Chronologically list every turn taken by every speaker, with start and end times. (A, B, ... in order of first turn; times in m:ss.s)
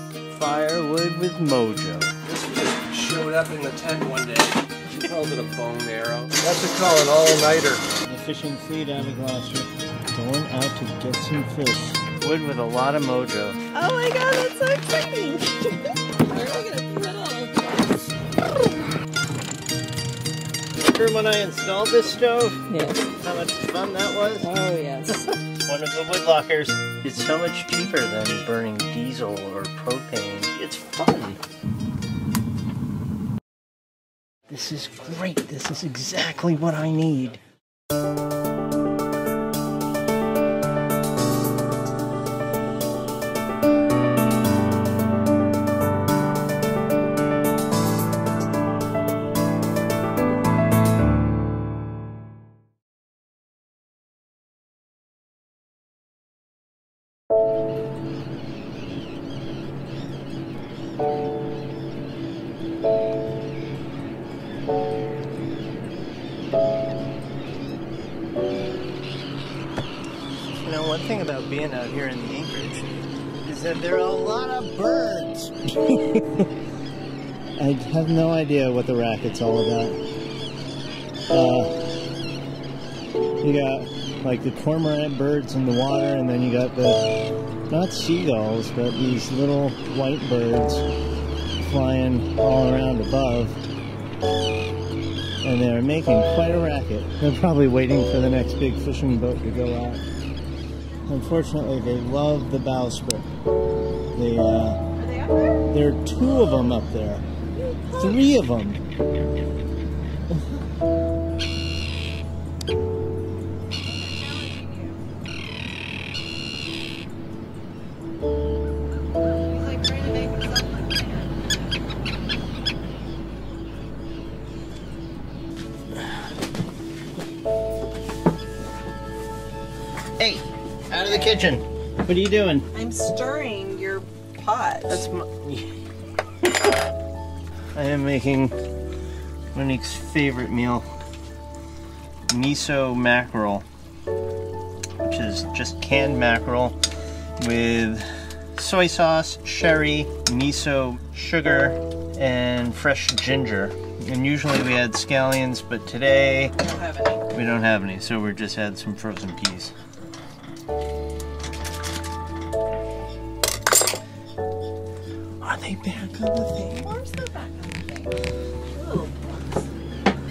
0:00.3-0:02.1 A
0:02.2-0:07.8 B
0:08.0-0:13.6 A
0:13.7-0:17.8 C
0:20.8-0:22.6 A
0:22.7-0:23.1 C
0:23.2-0:24.5 A
0:24.4-0:25.3 C
0:25.6-0:31.4 A
0:34.5-0:37.4 A
1:10.6-1:12.8 A
1:13.4-1:16.5 A
1:17.6-1:20.0 A
1:21.3-1:22.0 A
1:23.4-1:30.9 A
1:31.6-1:33.6 A
1:35.4-1:40.0 A
1:41.1-1:43.3 A
1:44.1-1:44.8 A
1:45.0-1:45.7 C
1:45.7-1:47.2 A
1:47.6-1:48.3 C
1:48.0-1:48.8 A
1:53.8-1:55.0 C
1:59.3-2:01.3 C
2:10.2-2:12.7 A
2:12.7-2:15.0 C
2:14.9-2:15.7 A
2:17.7-2:18.5 A
2:19.5-2:20.9 A
2:22.3-2:23.6 A
2:25.0-2:26.8 A
2:27.4-2:36.5 A
2:36.6-2:37.2 C
2:37.3-2:39.7 A
2:45.4-2:46.7 A
2:46.5-2:48.2 C
2:48.7-2:49.9 C